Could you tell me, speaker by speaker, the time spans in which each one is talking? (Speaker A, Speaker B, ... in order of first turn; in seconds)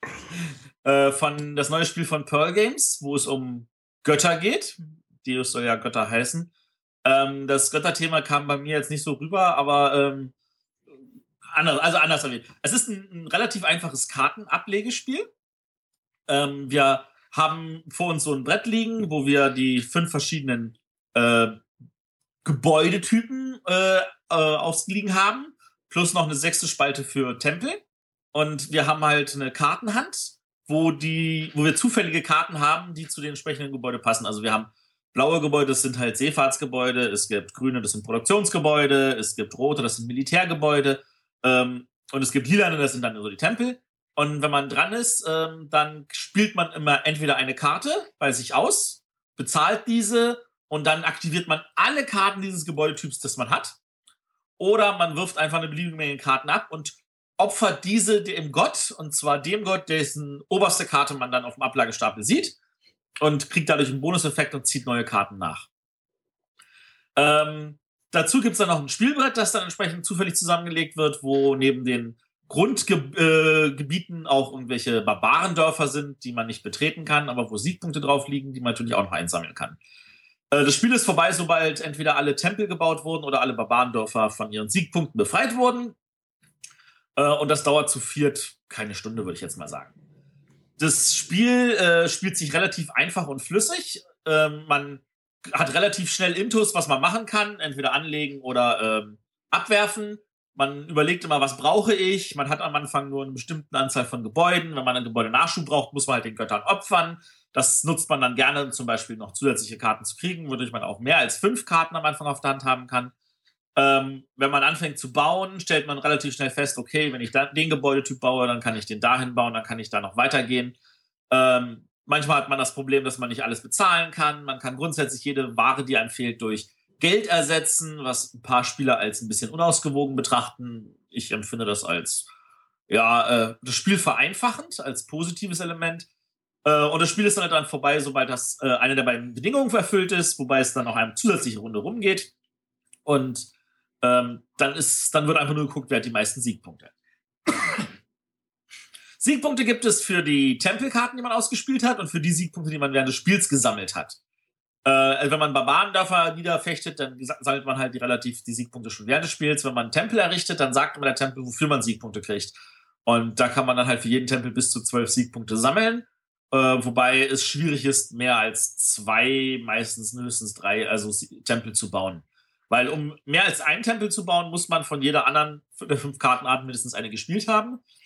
Speaker A: 0.8-6.5, 7.0-10.3, 11.5-15.3, 16.3-21.6, 22.4-53.8, 54.6-62.5, 63.2-65.7, 67.2-79.8, 80.5-85.9, 87.2-89.9, 90.8-113.1, 113.8-120.7, 121.3-132.3, 132.9-136.1, 136.6-142.3, 143.0-143.5, 144.0-146.9, 149.2-154.2, 154.8-162.5, 163.1-177.8